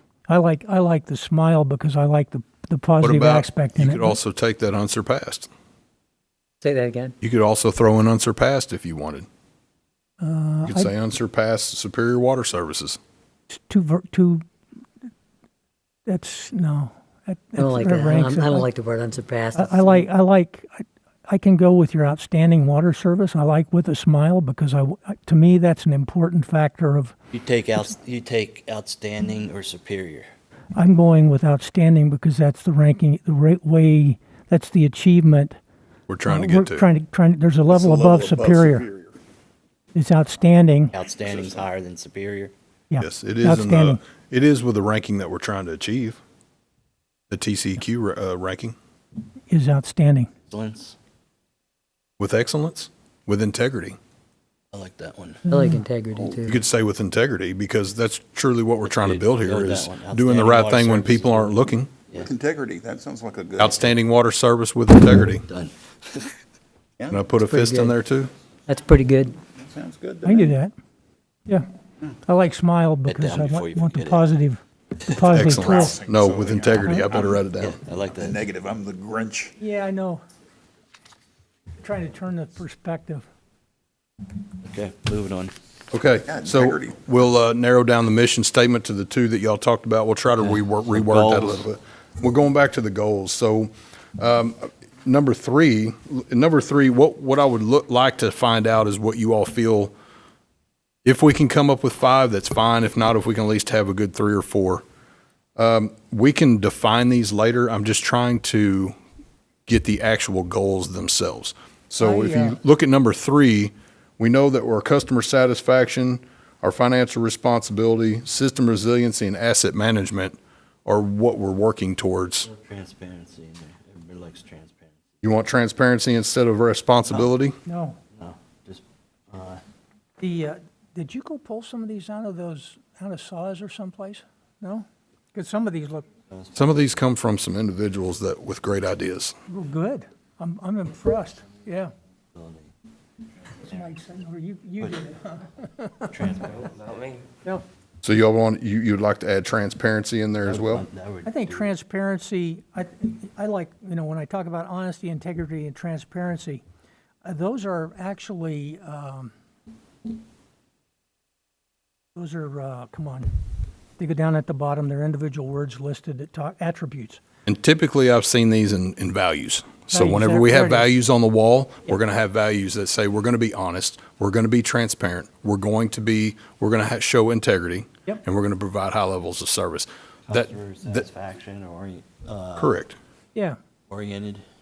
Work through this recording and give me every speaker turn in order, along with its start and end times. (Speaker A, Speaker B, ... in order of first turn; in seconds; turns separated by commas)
Speaker A: 0.3-4.2, Speaker B: 3.0-5.5, Speaker C: 6.6-7.1, Speaker B: 7.2-9.3, Speaker A: 10.2-10.9, Speaker B: 10.7-13.0, Speaker A: 13.5-14.4, Speaker A: 16.1-18.7, Speaker C: 17.6-20.1, Speaker A: 19.5-27.1, Speaker D: 27.3-30.3, Speaker A: 30.7-35.6, Speaker B: 36.1-36.9, Speaker A: 36.2-38.9, Speaker E: 37.7-39.1, Speaker A: 39.9-40.9, Speaker D: 40.9-42.5, Speaker E: 41.3-41.6, Speaker A: 42.9-44.0, Speaker B: 43.0-46.2, Speaker B: 47.3-48.7, Speaker A: 49.5-50.3, Speaker D: 50.5-51.0, Speaker B: 52.2-54.0, Speaker D: 54.7-55.4, Speaker A: 55.5-55.8, Speaker C: 55.5-56.6, Speaker B: 56.4-61.9, Speaker D: 58.8-62.3, Speaker E: 62.2-63.9, Speaker B: 63.6-65.4, Speaker D: 65.5-66.3, Speaker B: 67.1-68.3, Speaker C: 67.3-67.9, Speaker C: 68.7-69.4, Speaker E: 69.6-70.5, Speaker A: 70.2-70.7, Speaker A: 72.2-76.0, Speaker D: 73.0-74.2, Speaker B: 75.3-77.8, Speaker E: 75.5-77.4, Speaker A: 76.8-77.1, Speaker D: 77.6-78.4, Speaker E: 78.2-79.5, Speaker A: 79.6-80.2, Speaker A: 81.8-83.3, Speaker D: 84.6-85.5, Speaker B: 85.9-99.9, Speaker E: 86.2-87.0, Speaker D: 90.5-91.7, Speaker B: 101.0-104.8, Speaker B: 105.6-108.9, Speaker B: 109.7-122.5, Speaker A: 112.0-112.6, Speaker D: 122.5-125.0, Speaker B: 125.2-127.5, Speaker D: 127.0-127.3, Speaker A: 127.7-128.0, Speaker D: 128.1-129.6, Speaker A: 130.2-136.1, Speaker D: 136.3-136.9, Speaker B: 136.5-139.3, Speaker A: 139.5-141.9, Speaker D: 142.3-142.7, Speaker A: 143.6-146.1, Speaker D: 146.1-147.2, Speaker B: 148.0-150.8, Speaker D: 150.4-151.7, Speaker A: 151.2-156.6, Speaker A: 157.2-159.3, Speaker A: 162.1-163.3, Speaker A: 164.0-167.2, Speaker B: 167.4-181.0, Speaker A: 169.9-170.9, Speaker D: 180.3-182.8, Speaker B: 182.6-183.0, Speaker D: 183.9-184.4